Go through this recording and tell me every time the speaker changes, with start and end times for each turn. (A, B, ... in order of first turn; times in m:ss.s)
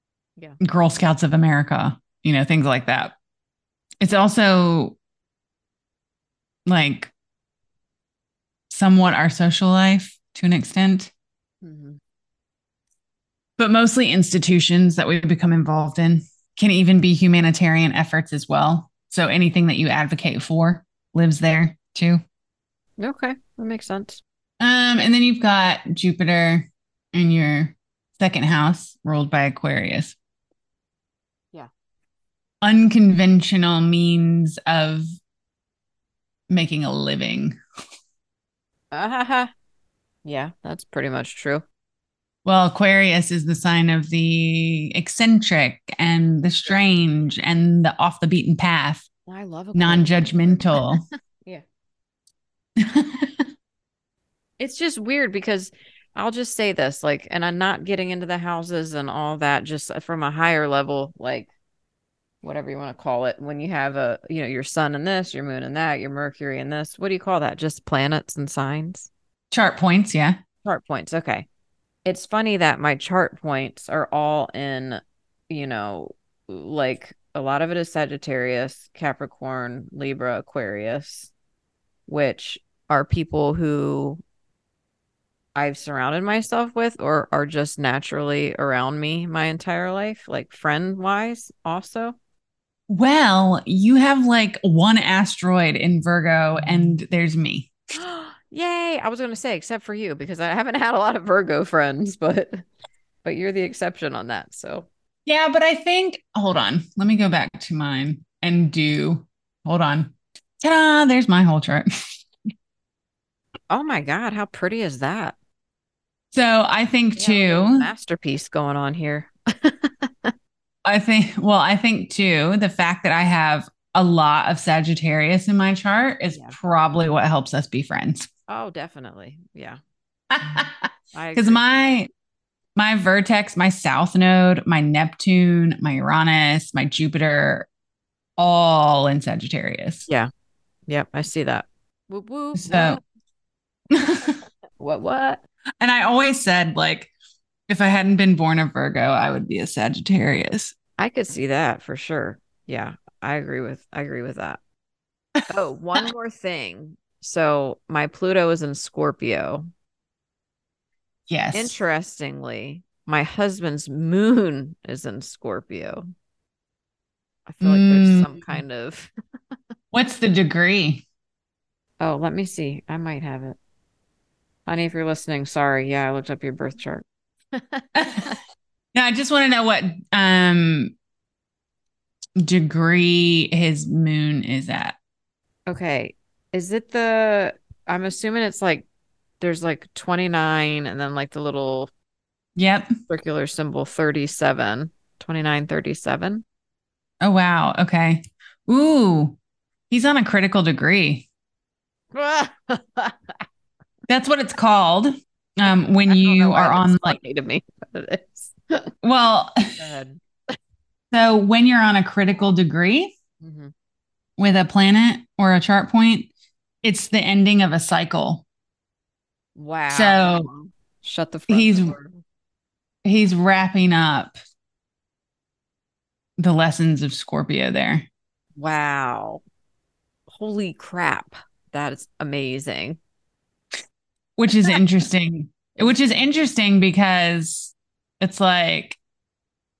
0:00.6-0:03.1 A
0:04.0-0:05.0 A
0:06.6-0:07.1 A
0:08.7-0:11.1 A
0:11.6-0:12.0 B
0:13.6-0:22.2 A
0:23.0-0:24.2 B
0:24.6-0:30.2 A
0:32.6-0:35.0 A
0:36.5-0:37.6 A
0:38.9-0:39.5 B
0:40.2-0:41.6 B
0:42.4-0:49.0 A
0:49.3-0:51.6 B
0:49.7-0:51.0 A
0:52.8-0:53.3 A
0:54.6-1:01.5 B
1:02.4-1:09.1 B
1:09.5-1:10.4 A
1:10.6-1:11.5 B
1:12.0-1:21.3 B
1:22.1-1:24.2 B
1:25.5-1:32.2 B
1:32.9-1:37.7 A
1:37.9-1:42.6 B
1:43.2-1:44.9 B
1:45.2-1:51.9 A
1:53.7-1:55.3 B
1:56.3-1:57.9 A
1:57.2-2:00.3 B
2:00.8-2:08.3 A
2:06.3-2:06.6 B
2:08.5-2:09.8 B
2:10.3-2:12.1 A
2:11.1-2:11.6 B
2:12.8-2:17.7 A
2:18.4-2:20.0 A
2:20.9-2:23.0 B
2:22.5-2:23.0 A
2:23.9-2:24.4 A
2:24.8-2:25.4 B
2:25.8-2:27.1 A
2:27.7-2:30.7 A
2:31.0-2:34.6 B
2:35.5-2:39.7 B
2:41.3-2:41.8 A
2:41.5-2:46.0 B
2:47.5-2:49.1 B
2:47.6-2:48.6 A
2:49.9-2:51.0 A
2:52.0-2:53.6 B
2:54.6-2:58.4 B
2:57.9-2:58.3 A
2:58.9-3:00.9 A
3:02.4-3:05.0 A
3:05.7-3:08.8 B
3:09.4-3:11.9 B
3:12.6-3:12.9 A
3:13.1-3:16.4 B
3:17.2-3:19.4 A
3:19.9-3:21.3 A
3:22.1-3:23.4 B
3:24.1-3:27.2 A
3:25.7-3:28.9 B
3:29.0-3:29.6 A
3:29.8-3:30.2 B
3:31.1-3:33.1 A
3:33.4-3:33.7 B
3:34.4-3:36.3 A
3:36.8-3:38.4 A
3:39.6-3:42.2 B
3:39.9-3:40.5 A
3:41.5-3:41.9 A
3:43.0-3:44.3 A
3:46.4-3:48.1 A
3:48.6-3:49.4 B
3:50.3-3:53.0 B
3:54.4-3:59.0 A
3:55.8-3:56.4 B